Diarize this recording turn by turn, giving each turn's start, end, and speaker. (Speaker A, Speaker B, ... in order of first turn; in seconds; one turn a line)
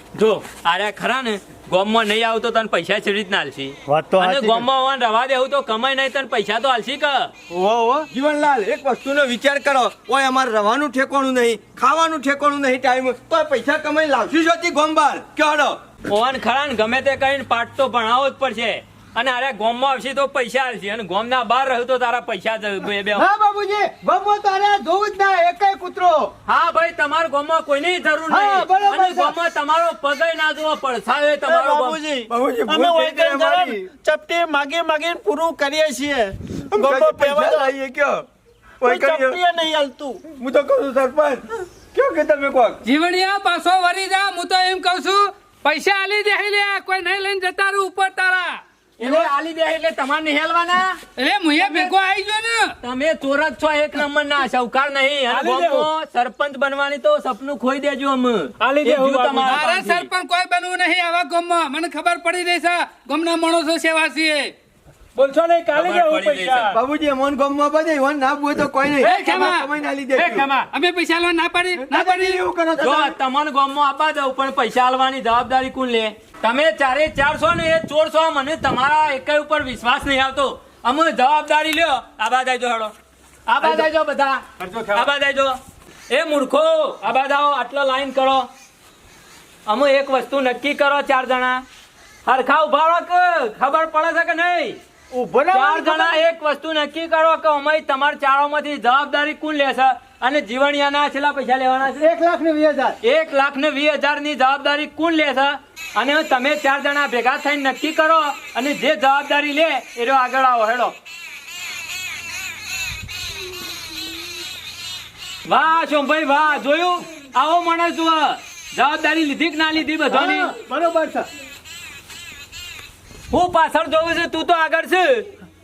Speaker A: 0.1-7.3
Speaker B: 3.9-4.7
Speaker B: 7.5-8.1
Speaker C: 8.1-15.8
Speaker A: 16.1-23.2
Speaker B: 23.2-26.3
Speaker A: 26.5-32.0
Speaker B: 28.3-29.4
Speaker D: 31.4-37.7
Speaker C: 32.3-33.9
Speaker C: 36.7-38.2
Speaker C: 38.8-39.4
Speaker D: 38.8-40.3
Speaker C: 40.3-42.8
Speaker E: 42.8-48.6
Speaker A: 49.0-51.0
Speaker E: 51.2-52.8
Speaker A: 52.8-60.1
Speaker F: 55.3-55.9
Speaker F: 58.6-59.6
Speaker E: 59.4-64.5
Speaker F: 65.2-66.7
Speaker A: 65.7-66.8
Speaker C: 66.7-70.5
Speaker E: 69.0-69.7
Speaker F: 70.2-70.4
Speaker A: 70.2-70.7
Speaker E: 70.7-72.4
Speaker C: 71.9-73.2
Speaker A: 72.8-82.9
Speaker A: 83.5-85.6
Speaker F: 84.6-85.1
Speaker A: 86.1-88.5
Speaker A: 89.7-91.6
Speaker A: 92.2-94.8
Speaker B: 95.1-96.2
Speaker A: 95.5-102.1
Speaker B: 102.0-103.0
Speaker A: 103.0-111.0
Speaker A: 115.5-120.5
Speaker B: 120.4-120.8
Speaker D: 120.9-121.2
Speaker A: 123.3-125.3